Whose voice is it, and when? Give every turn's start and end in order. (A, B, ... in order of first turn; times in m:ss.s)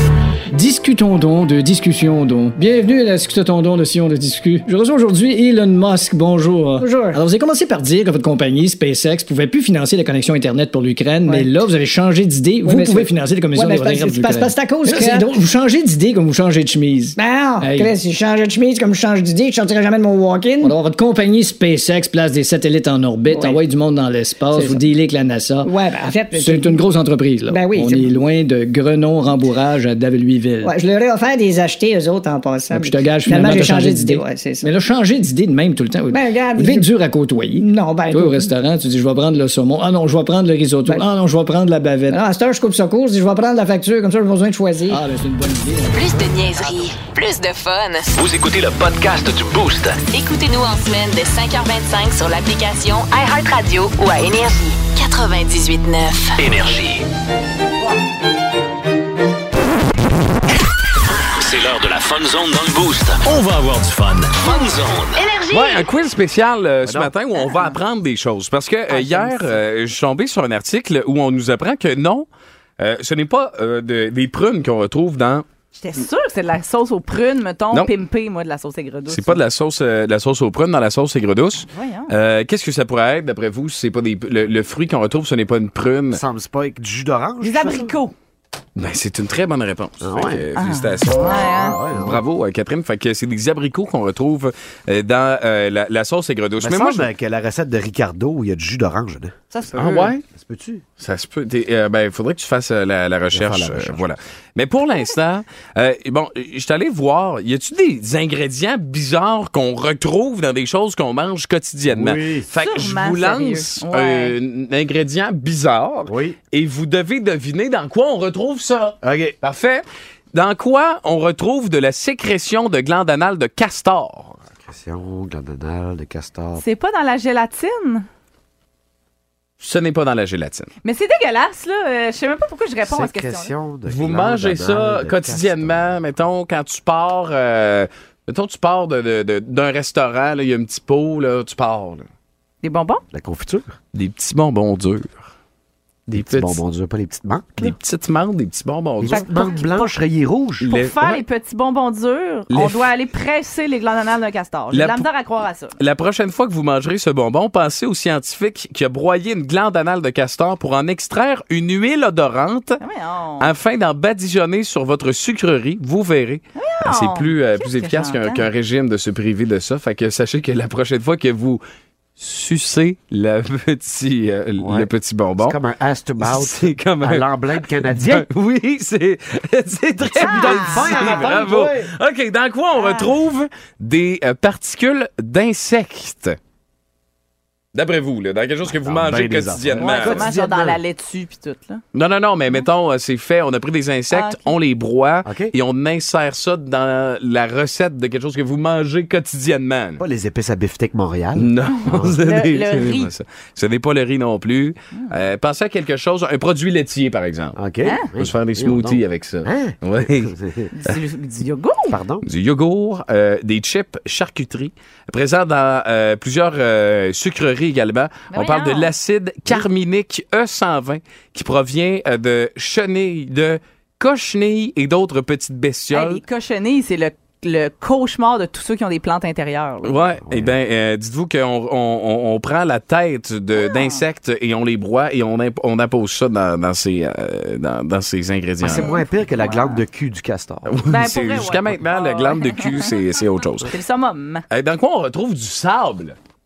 0:00.5-0:17.9 A
0:06.8-0:07.2 B
0:11.3-0:11.6 B
0:12.6-0:15.4 B
0:17.2-0:20.8 B
0:20.6-0:25.7 A
0:23.3-0:23.6 B
0:24.5-0:24.8 B
0:25.6-0:26.8 B
0:26.3-0:30.7 A
0:27.5-0:28.2 B
0:30.6-0:34.7 B
0:32.7-0:42.2 A
0:36.1-0:36.9 B
0:37.5-0:38.5 B
0:42.1-0:45.0 B
0:44.9-0:46.3 A
0:45.9-0:48.1 C
0:48.1-0:50.0 D
0:50.1-0:56.4 C
0:56.4-0:57.0 D
1:01.4-1:05.2 D
1:05.1-1:05.8 C
1:05.5-1:12.3 E
1:06.8-1:07.1 F
1:07.4-1:07.8 G
1:08.9-1:09.6 G
1:12.8-1:15.4 E
1:15.8-1:19.4 G
1:19.1-1:26.2 E
1:21.7-1:22.1 G
1:26.1-1:27.9 F
1:27.4-1:28.1 G
1:28.8-1:37.1 E
1:30.0-1:30.4 F
1:30.6-1:31.8 G
1:31.3-1:32.2 F
1:36.6-1:40.8 F
1:39.7-1:40.2 E
1:41.0-2:04.4 E
1:43.3-1:44.0 F
1:51.9-1:52.5 F
1:52.6-1:54.3 G
1:56.1-1:56.4 F
1:59.0-1:59.4 F
2:04.6-2:06.6 F
2:06.6-2:08.1 G
2:09.6-2:10.7 E
2:10.8-2:13.5 G
2:12.8-2:16.0 F
2:13.9-2:22.1 E
2:22.6-2:23.0 G
2:23.1-2:23.7 F
2:23.9-2:25.2 E
2:26.1-2:26.6 E
2:26.1-2:27.8 F
2:27.6-2:29.6 E
2:29.0-2:30.7 F
2:29.1-2:29.9 G
2:30.6-2:31.2 E
2:30.6-2:35.8 G
2:32.5-2:32.9 E
2:34.7-2:35.1 E
2:35.8-2:42.8 E
2:42.8-2:43.5 G
2:43.4-2:51.6 E
2:46.5-2:48.4 G
2:52.2-2:55.6 E
2:54.6-2:58.3 F
2:56.2-3:06.4 E
3:00.0-3:01.9 F
3:00.2-3:01.3 G
3:02.7-3:03.1 G
3:07.7-3:10.3 E
3:08.6-3:10.8 F
3:09.8-3:11.8 G
3:11.9-3:20.0 E
3:14.1-3:14.5 G
3:15.2-3:15.5 F
3:20.0-3:22.2 F
3:21.4-3:27.6 E
3:22.2-3:23.1 G
3:27.6-3:30.7 F
3:28.2-3:30.3 E
3:30.7-3:32.0 G
3:31.9-3:32.3 F
3:32.2-3:46.2 E
3:38.3-3:38.9 G
3:45.9-3:50.0 G
3:49.8-3:58.9 E
3:50.2-3:50.6 F
3:53.6-3:54.0 G
3:58.6-4:00.8 F
3:58.7-3:59.8 G
4:00.7-4:03.7 E
4:00.9-4:02.9 G
4:03.6-4:04.4 G
4:04.5-4:06.2 E